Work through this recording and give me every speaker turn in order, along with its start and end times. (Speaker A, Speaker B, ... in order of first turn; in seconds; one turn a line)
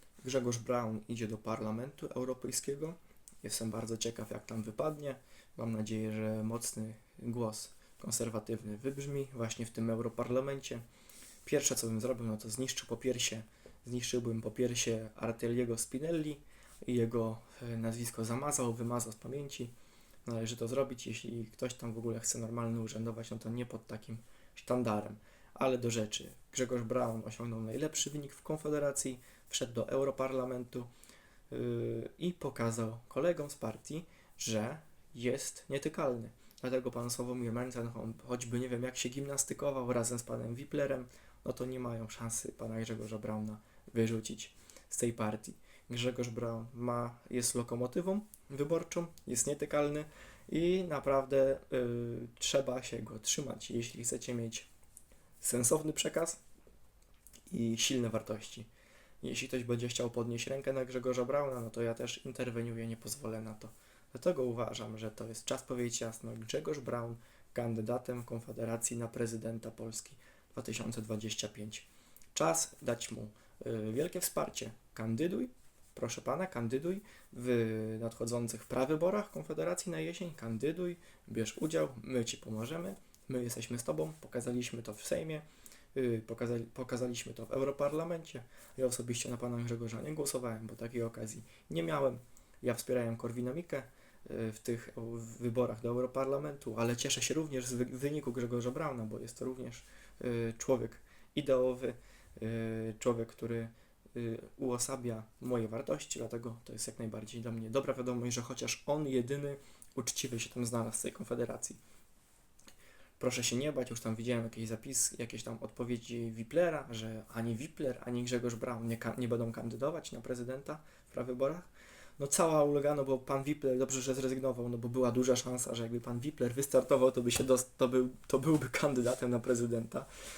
Speaker A: 0.2-10.8
Speaker A: 11.4-19.7
Speaker A: 20.3-30.9
Speaker A: 31.5-54.7
Speaker A: 55.4-56.4
Speaker A: 57.5-58.7
Speaker A: 59.2-111.8
Speaker A: 113.2-121.7
Speaker A: 122.2-130.1